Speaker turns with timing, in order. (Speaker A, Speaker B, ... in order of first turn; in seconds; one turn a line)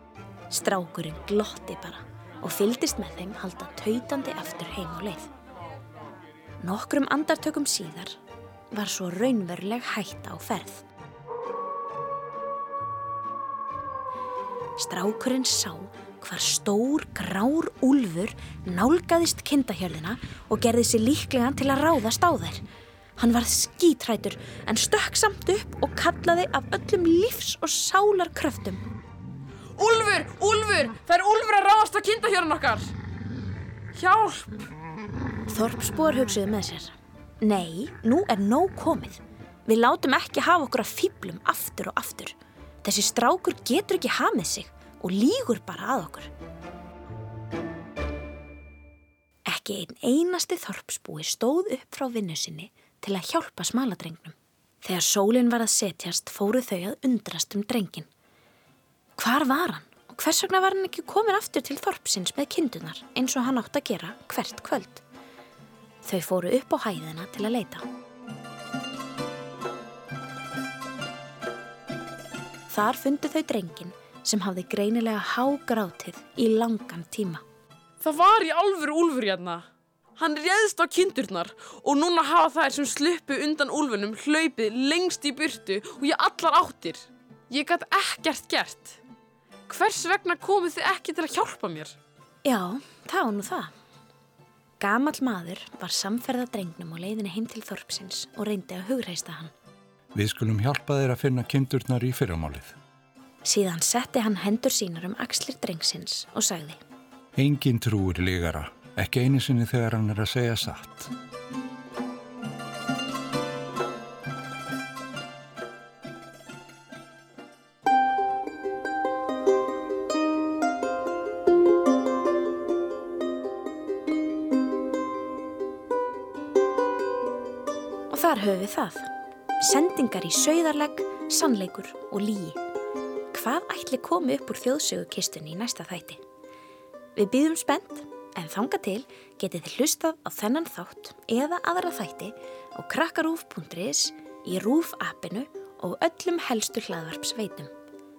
Speaker A: 0.5-5.3
Speaker A: 6.6-8.2
Speaker A: 8.7-10.8
Speaker A: 14.8-22.6
Speaker A: 23.2-28.8
Speaker B: 29.8-32.9
Speaker B: 33.9-34.7
Speaker A: 35.5-46.3
Speaker A: 49.5-58.1
Speaker A: 59.2-65.0
Speaker A: 66.0-67.8
Speaker A: 72.7-77.4
Speaker B: 78.0-89.0
Speaker B: 89.7-92.0
Speaker A: 92.4-93.7
Speaker A: 94.8-99.5
Speaker C: 100.1-102.8
Speaker A: 103.4-106.8
Speaker C: 107.3-111.1
Speaker A: 128.1-129.1
Speaker A: 129.6-132.6
Speaker A: 133.3-136.2
Speaker A: 137.2-147.7